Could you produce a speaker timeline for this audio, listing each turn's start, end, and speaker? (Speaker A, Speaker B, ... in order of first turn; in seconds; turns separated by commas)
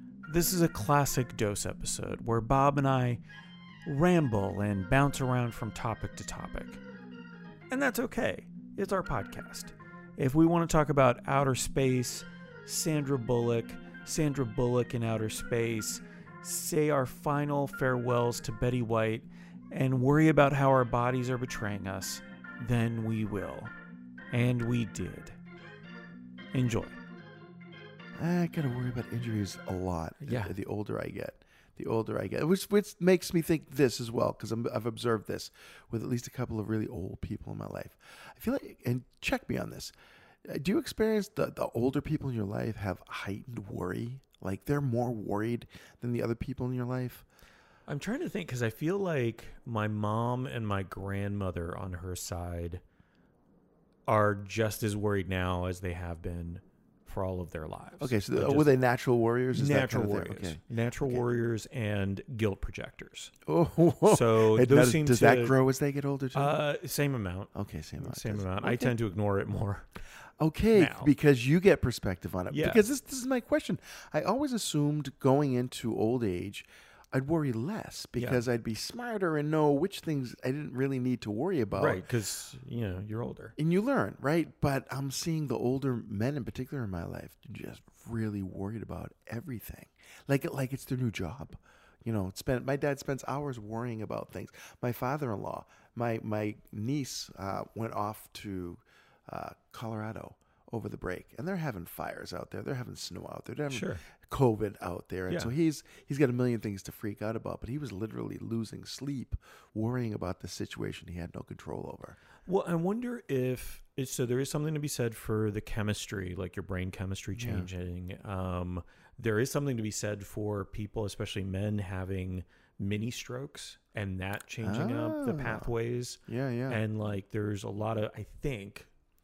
Speaker A: 0.3-3.2, Speaker A: 3.9-6.8, Speaker A: 7.7-23.7, Speaker A: 24.3-25.4, Speaker A: 26.5-27.0, Speaker B: 28.2-39.9, Speaker A: 30.2-30.6, Speaker B: 40.5-47.2, Speaker A: 47.9-52.8, Speaker A: 54.1-58.8, Speaker B: 58.0-61.2, Speaker A: 59.5-63.3, Speaker B: 63.5-66.6, Speaker A: 64.0-65.6, Speaker A: 66.3-69.9, Speaker B: 67.5-69.0, Speaker B: 70.4-82.0, Speaker A: 70.7-71.1, Speaker A: 72.5-72.8, Speaker A: 78.2-78.4, Speaker A: 81.8-83.6, Speaker B: 83.6-112.2, Speaker A: 103.7-104.0, Speaker A: 112.5-128.9, Speaker B: 117.3-117.7, Speaker B: 124.6-125.7, Speaker B: 126.3-126.8